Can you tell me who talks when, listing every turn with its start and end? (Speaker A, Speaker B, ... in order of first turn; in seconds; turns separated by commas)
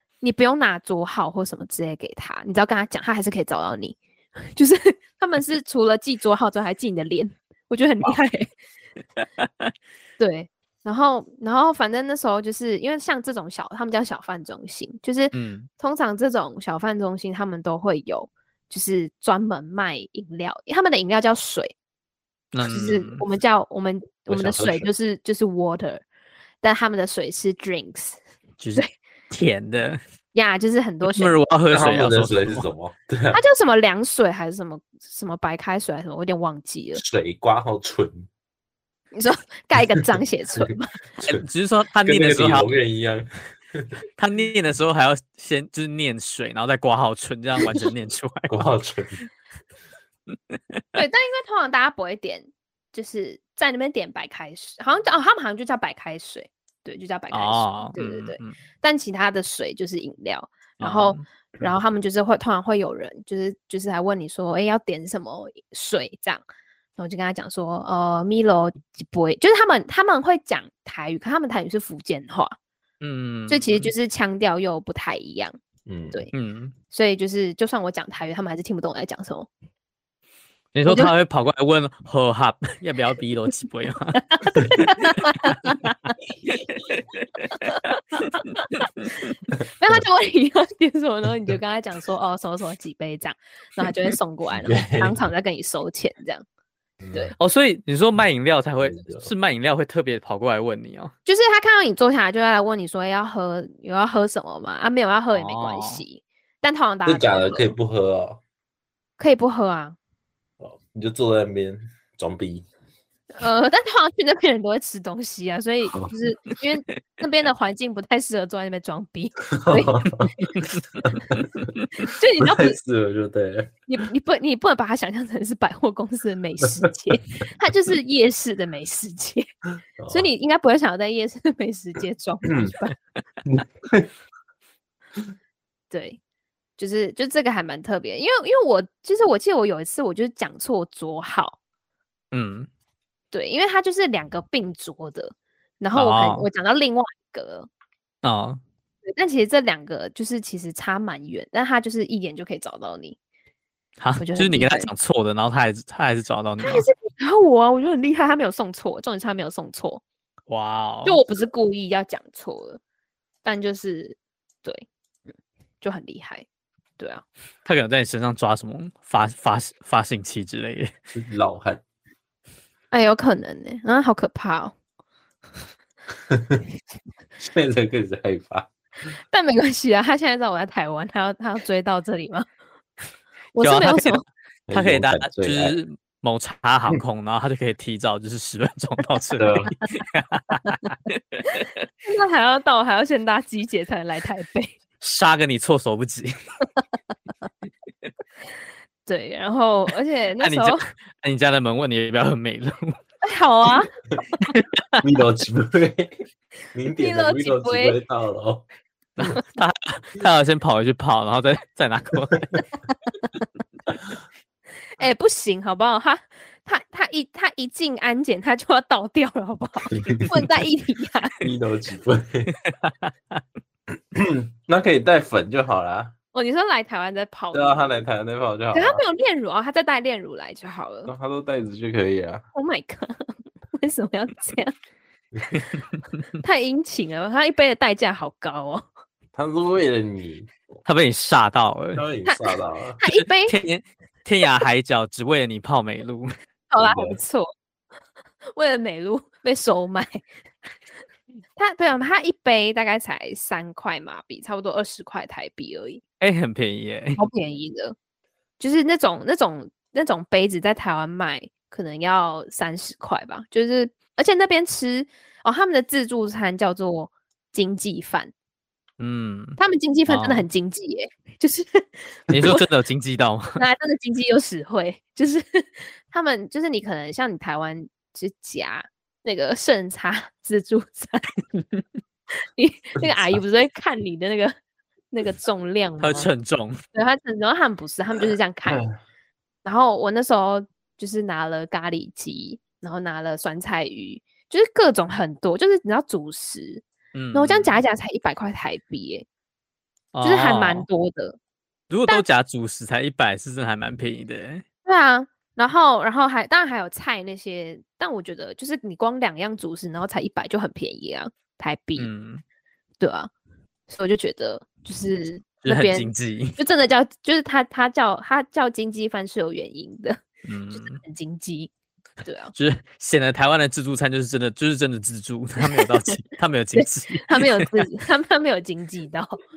Speaker A: 0.2-4.0, Speaker A: 4.6-8.5, Speaker B: 9.4-9.7, Speaker A: 10.2-21.7, Speaker B: 15.3-15.7, Speaker B: 22.5-23.2, Speaker A: 22.6-26.0, Speaker C: 24.3-24.9, Speaker A: 26.6-28.2, Speaker B: 28.6-30.0, Speaker A: 30.3-31.4, Speaker B: 31.1-32.7, Speaker C: 31.7-33.4, Speaker A: 33.3-37.0, Speaker C: 37.0-38.3, Speaker A: 39.1-41.0, Speaker B: 41.2-42.7, Speaker C: 42.0-43.9, Speaker B: 44.2-48.6, Speaker C: 48.5-49.2, Speaker A: 51.0-66.4, Speaker B: 57.3-58.6, Speaker B: 60.8-61.2, Speaker A: 67.0-72.5, Speaker B: 73.0-73.9, Speaker A: 73.5-75.6, Speaker C: 75.9-76.2, Speaker B: 76.3-76.7, Speaker A: 76.9-79.5, Speaker B: 80.7-84.2, Speaker A: 80.9-81.1, Speaker A: 84.4-86.0, Speaker B: 85.0-85.6, Speaker B: 86.9-87.7, Speaker A: 88.4-88.7, Speaker A: 89.8-96.5, Speaker C: 94.6-95.2, Speaker C: 97.0-97.3, Speaker B: 97.4-101.1, Speaker C: 98.8-99.3, Speaker A: 101.3-107.7, Speaker B: 105.3-106.0, Speaker C: 107.1-108.4, Speaker A: 109.2-110.0, Speaker C: 110.6-112.7, Speaker A: 113.3-120.1, Speaker C: 119.5-121.7, Speaker A: 122.0-122.8, Speaker C: 122.4-123.7, Speaker A: 123.9-129.5, Speaker C: 130.0-130.3, Speaker A: 130.1-133.0, Speaker C: 132.5-132.7, Speaker C: 133.4-134.1, Speaker A: 135.9-136.2, Speaker A: 136.8-141.6, Speaker B: 142.3-142.7, Speaker A: 143.3-147.7, Speaker B: 145.9-146.5, Speaker B: 148.2-148.6, Speaker A: 149.1-153.2, Speaker B: 154.0-156.9, Speaker A: 154.2-154.9, Speaker A: 156.6-160.0, Speaker B: 160.5-161.2, Speaker A: 161.1-162.8, Speaker A: 163.4-164.9, Speaker A: 165.8-166.5, Speaker A: 167.0-167.2, Speaker B: 167.7-170.9, Speaker C: 171.2-171.8, Speaker A: 172.9-174.8, Speaker C: 176.3-176.6, Speaker C: 177.4-178.7, Speaker A: 179.3-182.5, Speaker A: 183.5-184.2, Speaker B: 183.6-184.2, Speaker C: 184.7-185.8, Speaker B: 184.7-191.7, Speaker C: 189.4-189.7, Speaker A: 192.1-194.8, Speaker B: 195.0-196.3, Speaker A: 199.1-200.8, Speaker B: 200.4-203.0, Speaker A: 203.2-203.9, Speaker B: 204.4-204.8, Speaker C: 205.0-206.2, Speaker C: 206.7-208.7, Speaker A: 206.9-208.0, Speaker B: 209.2-212.6, Speaker A: 215.0-221.4, Speaker C: 221.4-222.5, Speaker B: 222.7-223.4, Speaker C: 224.1-226.1, Speaker A: 226.3-228.0, Speaker C: 227.5-229.0, Speaker A: 228.7-231.1, Speaker C: 231.1-232.4, Speaker A: 232.5-234.8, Speaker A: 236.4-238.8, Speaker C: 239.3-240.5, Speaker B: 240.9-242.0, Speaker C: 242.0-243.0, Speaker A: 243.0-243.6, Speaker B: 243.1-246.3, Speaker A: 246.7-247.5, Speaker C: 246.8-247.2, Speaker A: 248.6-250.2, Speaker A: 251.6-256.0, Speaker B: 256.2-257.2, Speaker A: 257.2-258.0, Speaker A: 258.6-268.3, Speaker B: 269.0-270.5, Speaker A: 269.6-272.6, Speaker B: 272.3-273.6, Speaker A: 273.6-281.4, Speaker A: 282.5-284.6, Speaker A: 285.1-286.3, Speaker B: 286.0-286.8, Speaker A: 286.9-288.9, Speaker A: 289.6-299.3, Speaker B: 297.1-297.8, Speaker B: 300.1-300.9, Speaker A: 300.2-301.4, Speaker B: 301.9-304.6, Speaker A: 304.9-312.1, Speaker B: 312.0-312.4, Speaker A: 313.0-313.3, Speaker A: 313.9-320.2, Speaker B: 315.6-316.6, Speaker B: 320.5-321.0, Speaker A: 320.7-321.7, Speaker A: 322.2-322.5, Speaker B: 322.6-327.9, Speaker A: 325.6-325.9, Speaker A: 326.8-329.4